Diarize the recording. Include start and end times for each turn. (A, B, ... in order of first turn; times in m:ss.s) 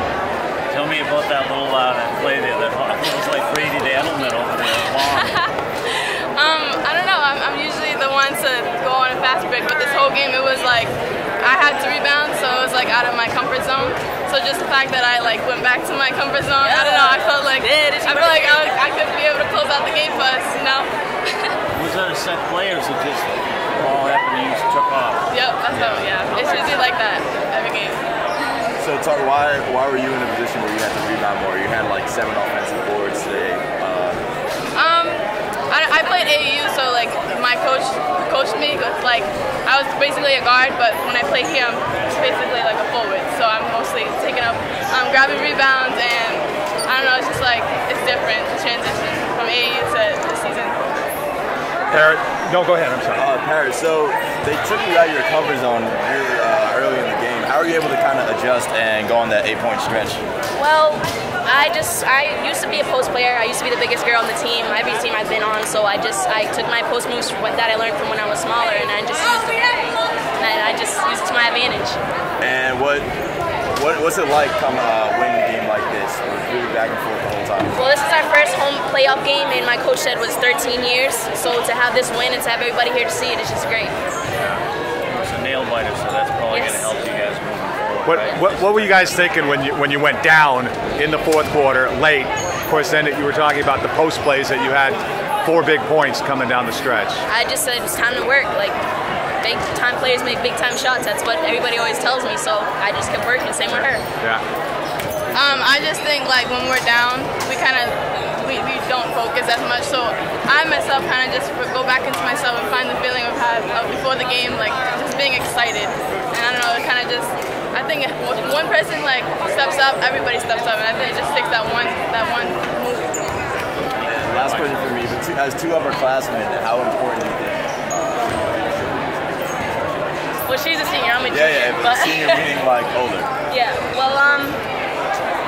0:00.7-0:05.5 A
0:05.2-0:21.6 B
0:16.6-0:18.7 C
0:21.7-0:26.1 A
0:25.3-0:28.0 B
0:28.8-0:34.2 D
0:34.7-0:50.8 B
0:51.9-0:53.2 E
0:53.1-1:00.2 D
1:00.6-1:09.8 C
1:10.4-1:12.0 C
1:12.4-1:13.1 D
1:13.7-1:17.8 D
1:17.7-1:23.9 C
1:24.4-1:28.9 A
1:26.5-1:26.9 C
1:28.0-1:37.2 E
1:37.3-1:38.8 C
1:39.4-1:44.0 C
1:45.3-2:03.3 B
2:04.0-2:05.0 A
2:04.0-2:08.5 D
2:10.4-2:12.4 C
2:11.3-2:13.3 D
2:13.5-2:14.6 C